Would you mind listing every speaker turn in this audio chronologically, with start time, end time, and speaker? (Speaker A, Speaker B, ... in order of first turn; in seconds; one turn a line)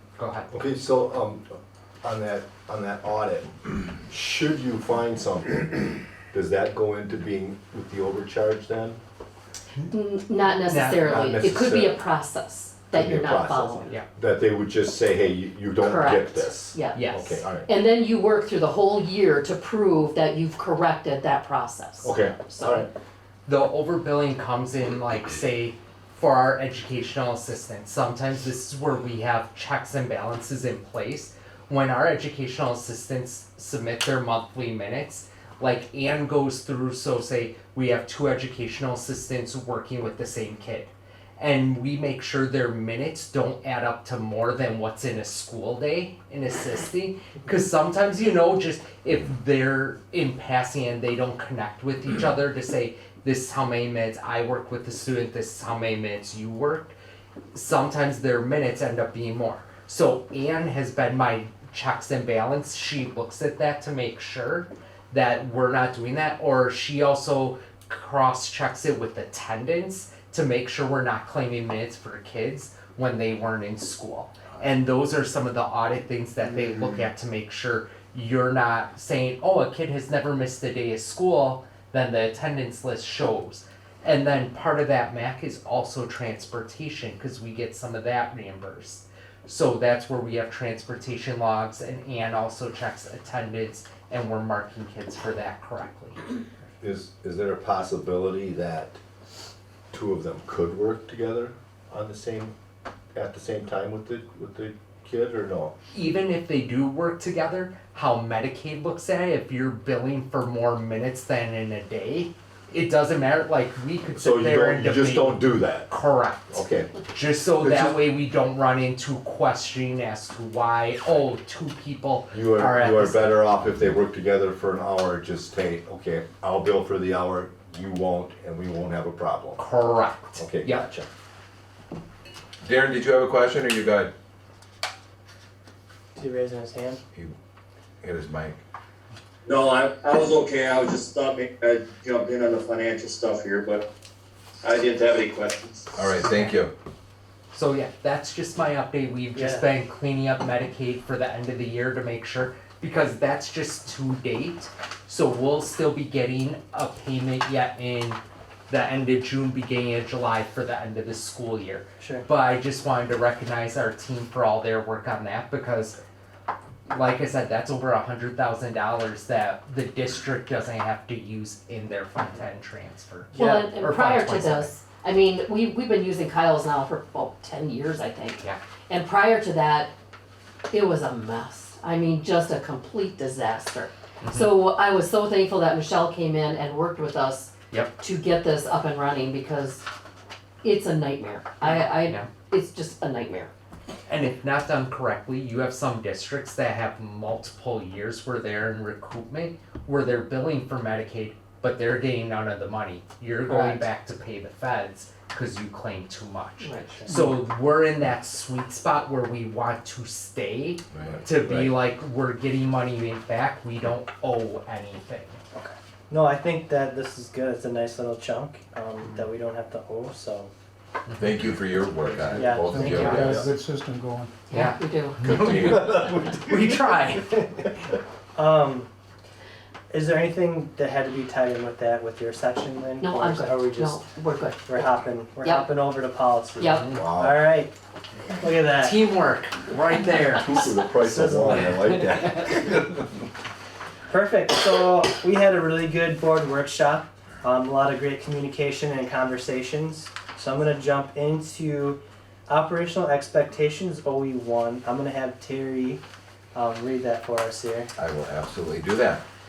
Speaker A: 0.2-0.5
Speaker B: 0.5-3.5
Speaker B: 4.0-9.0
Speaker C: 9.9-14.0
Speaker A: 10.7-11.2
Speaker B: 11.0-12.0
Speaker B: 12.9-17.7
Speaker C: 15.8-17.0
Speaker A: 16.9-17.4
Speaker C: 17.6-22.9
Speaker B: 22.0-22.9
Speaker A: 23.4-56.9
Speaker A: 57.5-96.7
Speaker B: 96.8-99.0
Speaker B: 99.9-102.5
Speaker B: 103.1-105.7
Speaker A: 105.9-123.4
Speaker B: 114.2-115.9
Speaker B: 116.5-117.0
Speaker B: 117.6-117.9
Speaker B: 122.3-129.6
Speaker A: 129.6-130.8
Speaker B: 130.4-131.1
Speaker D: 132.6-134.1
Speaker E: 136.2-137.0
Speaker D: 138.0-138.6
Speaker F: 139.5-143.8
Speaker F: 144.6-145.9
Speaker D: 145.9-146.7
Speaker A: 146.1-146.6
Speaker A: 147.5-166.0
Speaker E: 149.3-149.7
Speaker E: 162.0-162.2
Speaker A: 166.9-174.7
Speaker C: 173.3-179.9
Speaker C: 180.7-189.8
Speaker A: 184.2-184.6
Speaker C: 190.6-193.5
Speaker A: 191.6-192.3
Speaker A: 194.1-215.4
Speaker C: 203.5-203.8
Speaker C: 206.6-207.2
Speaker E: 206.9-207.3
Speaker D: 210.9-211.7
Speaker E: 215.5-220.5
Speaker D: 221.2-223.5
Speaker E: 222.3-223.4
Speaker G: 222.3-224.3
Speaker A: 222.8-223.4
Speaker C: 224.5-225.2
Speaker A: 224.5-227.8
Speaker D: 225.2-226.0
Speaker E: 228.3-228.9
Speaker E: 229.9-234.0
Speaker C: 233.0-234.8
Speaker E: 234.7-237.7
Speaker C: 235.4-235.7
Speaker C: 236.6-236.9
Speaker A: 236.6-237.1
Speaker B: 237.0-237.3
Speaker E: 238.3-239.0
Speaker A: 238.7-240.9
Speaker B: 240.4-242.8
Speaker E: 241.0-241.9
Speaker A: 241.4-242.6
Speaker E: 244.1-256.0
Speaker E: 256.5-257.9
Speaker D: 258.0-259.2